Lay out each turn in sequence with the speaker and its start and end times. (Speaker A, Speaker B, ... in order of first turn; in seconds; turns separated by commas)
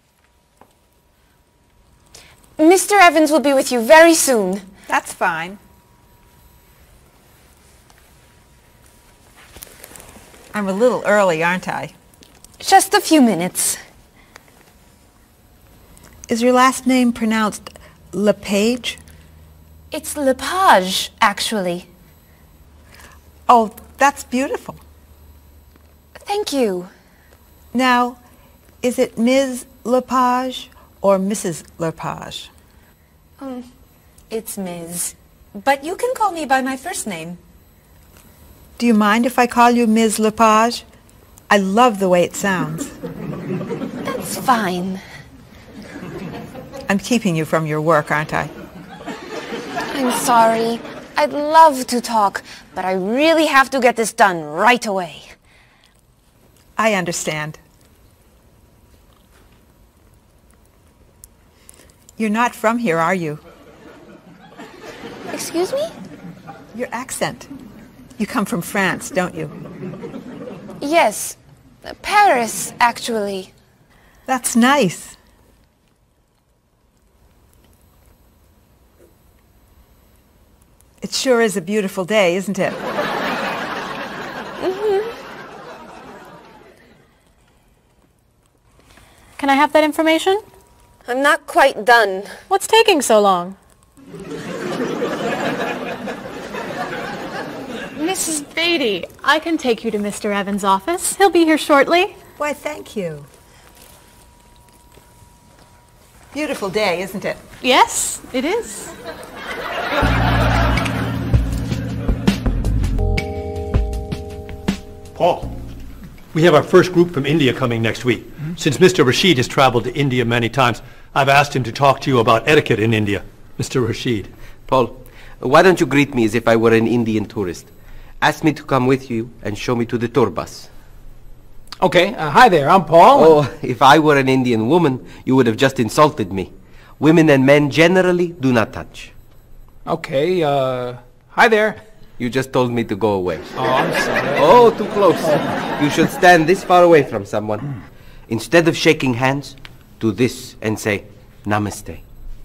Speaker A: 2.6-4.7, Speaker B: 4.9-5.6, Speaker B: 10.5-11.9, Speaker A: 12.6-13.8, Speaker B: 16.3-19.0, Speaker A: 19.9-21.9, Speaker B: 23.5-24.8, Speaker A: 26.2-26.9, Speaker B: 27.7-28.2, Speaker B: 28.8-32.5, Speaker A: 33.4-33.7, Speaker A: 34.3-37.4, Speaker B: 38.8-40.9, Speaker B: 41.5-42.9, Speaker A: 44.0-45.0, Speaker B: 46.9-48.5, Speaker A: 49.9-55.3, Speaker B: 56.8-57.6, Speaker B: 62.2-63.4, Speaker A: 65.3-65.9, Speaker B: 66.7-67.5, Speaker B: 68.2-69.5, Speaker A: 70.8-73.5, Speaker B: 74.3-75.2, Speaker B: 81.0-82.8, Speaker A: 84.6-85.1, Speaker C: 89.4-90.4, Speaker A: 91.1-92.4, Speaker C: 92.5-93.6, Speaker C: 97.9-102.2, Speaker B: 102.4-103.3, Speaker B: 106.3-107.4, Speaker C: 107.6-108.9, Speaker D: 115.2-115.6, Speaker D: 116.3-124.3, Speaker E: 124.7-130.7, Speaker F: 131.8-133.4, Speaker E: 133.1-139.1, Speaker F: 139.9-141.8, Speaker E: 142.2-143.5, Speaker F: 143.6-144.7, Speaker E: 144.3-147.7, Speaker E: 148.3-152.0